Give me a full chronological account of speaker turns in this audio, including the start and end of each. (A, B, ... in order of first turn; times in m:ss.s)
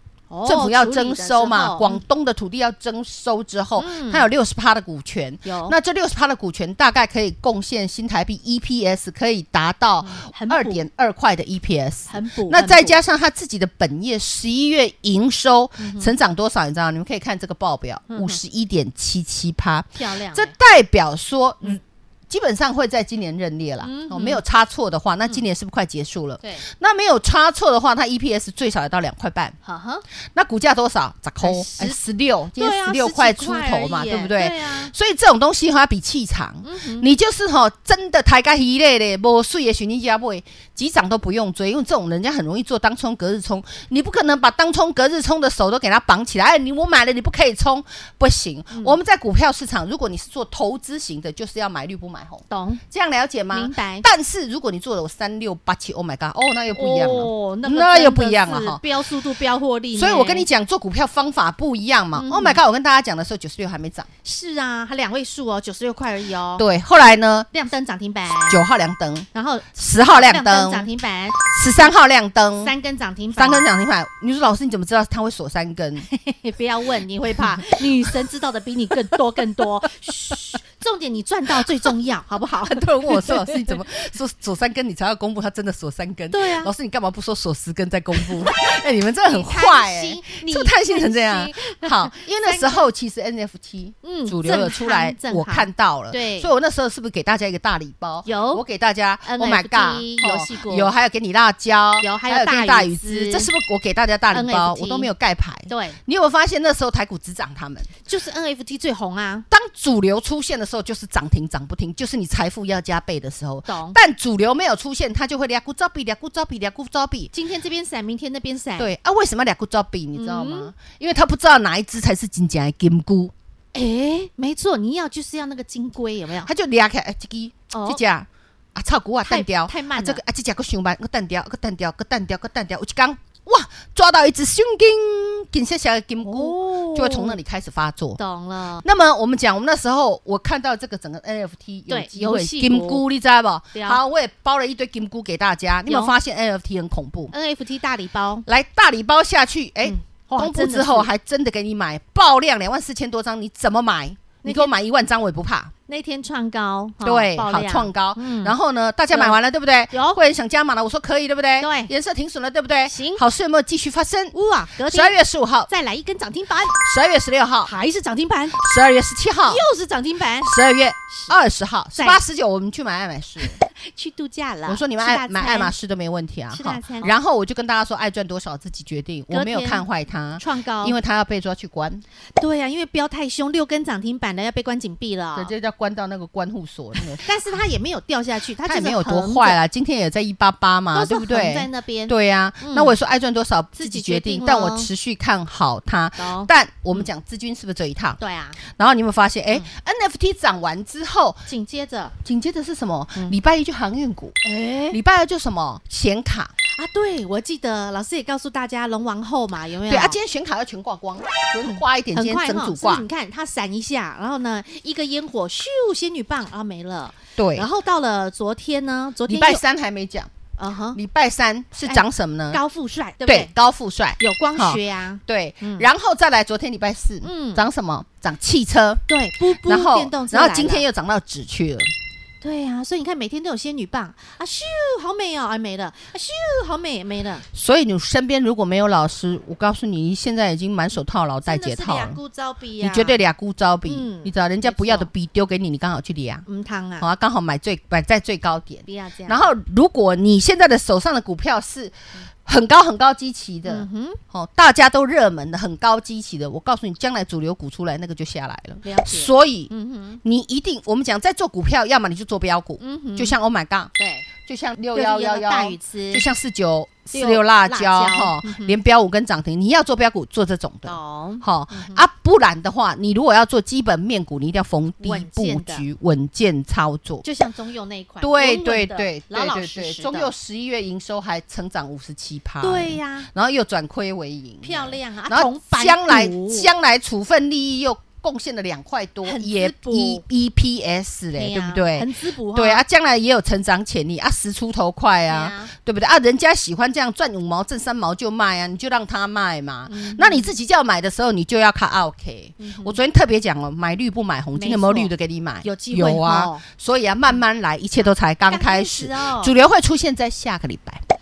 0:00.3-0:02.0 A
0:00.4-0:29.6 B
0:03.8-0:04.2 A
0:05.4-0:05.7 A
0:10.0-0:10.8 A
0:12.1-0:13.0 A
0:15.8-0:16.1 A
0:18.1-0:18.4 A
0:20.0-0:20.5 A
0:23.8-0:24.4 A
0:29.6-0:30.0 A
0:30.3-0:58.9 B
0:31.4-0:32.0 A
0:32.6-0:34.9 A
0:36.6-0:37.1 A
0:52.5-0:52.8 A
0:53.5-0:54.1 A
0:56.7-1:00.5 A
0:59.9-1:04.1 B
1:02.2-1:02.6 A
1:04.2-1:06.6 A
1:06.6-1:07.5 B
1:07.5-1:08.6 A
1:08.5-1:10.9 B
1:09.3-1:11.4 A
1:11.4-1:12.7 B
1:12.6-1:13.6 A
1:13.3-1:16.1 B
1:16.1-1:23.8 A
1:21.6-1:21.9 B
1:22.7-1:47.9 B
1:26.3-1:26.7 A
1:29.3-1:32.9 A
1:34.0-1:36.5 A
1:38.2-1:38.6 A
1:39.2-1:40.9 A
1:42.0-1:43.5 A
1:44.3-1:45.1 A
1:45.7-1:46.0 A
1:48.0-1:49.4 A
1:49.5-1:57.3 B
1:53.7-1:54.0 A
1:57.3-1:58.9 A
1:58.8-2:03.3 B
2:00.1-2:00.7 A
2:03.7-2:06.5 A
2:06.4-2:18.2 B
2:07.7-2:08.0 A
2:09.2-2:10.2 A
2:16.2-2:17.4 A
2:18.2-2:18.8 A
2:18.8-2:27.3 B
2:21.9-2:23.0 A
2:23.7-2:24.0 A
2:25.9-2:26.1 A
2:27.3-2:28.4 A
2:28.4-2:35.7 B
2:29.8-2:31.1 A
2:34.4-2:34.7 A
2:35.9-2:38.5 A
2:37.0-2:44.3 B
2:39.1-2:39.4 A
2:39.9-2:40.2 A
2:41.6-2:41.9 A
2:42.8-2:43.2 A
2:44.3-2:45.2 A
2:44.9-2:45.7 B
2:45.7-2:46.8 A
2:46.8-2:47.7 B
2:47.6-2:48.6 A
2:48.6-2:49.6 B
2:49.4-2:50.5 A
2:50.4-2:53.6 B
2:51.1-2:51.3 A
2:53.4-2:55.7 A
2:54.6-3:02.0 B
2:56.5-2:57.1 A
2:59.3-2:59.8 A
3:00.4-3:00.9 A
3:02.4-3:05.5 A
3:05.3-3:07.3 B
3:07.2-3:09.6 A
3:08.6-3:21.5 B
3:10.9-3:13.0 A
3:13.8-3:14.9 A
3:16.2-3:17.1 A
3:18.2-3:18.6 A
3:21.5-3:22.1 A
3:22.2-3:24.4 B
3:24.4-3:25.0 A
3:24.9-3:26.5 B
3:26.7-3:30.2 A
3:29.9-3:33.0 B
3:31.6-3:39.6 A
3:37.4-3:37.7 B
3:39.3-3:40.3 B
3:40.6-3:41.0 A
3:40.9-3:42.6 B
3:41.8-3:43.5 A
3:43.2-3:51.9 B
3:44.2-3:45.9 A
3:47.2-3:47.6 A
3:49.1-3:50.8 A
3:52.4-3:57.4 A
3:57.5-4:02.2 B
4:01.4-4:03.2 A
4:02.8-4:06.4 B
4:03.8-4:05.1 A
4:06.5-4:07.1 A
4:07.0-4:11.9 B
4:08.9-4:09.5 A
4:12.4-4:19.7 B
4:13.6-4:14.2 A
4:18.8-4:20.2 A
4:20.2-4:23.9 B
4:22.8-4:23.3 A
4:24.0-4:24.3 A
4:24.4-4:37.2 B
4:24.9-4:26.2 A
4:27.1-4:28.8 A
4:30.8-4:32.0 A
4:35.0-4:35.8 A
4:37.2-4:40.3 A
4:38.2-5:11.0 B
4:42.6-4:43.3 A
4:44.6-4:46.7 A
4:49.2-4:50.2 A
4:51.3-4:52.8 A
4:55.3-4:55.7 A
4:59.9-5:00.5 A
5:02.6-5:03.0 A
5:04.5-5:05.1 A
5:05.6-5:06.6 A
5:08.0-5:09.5 A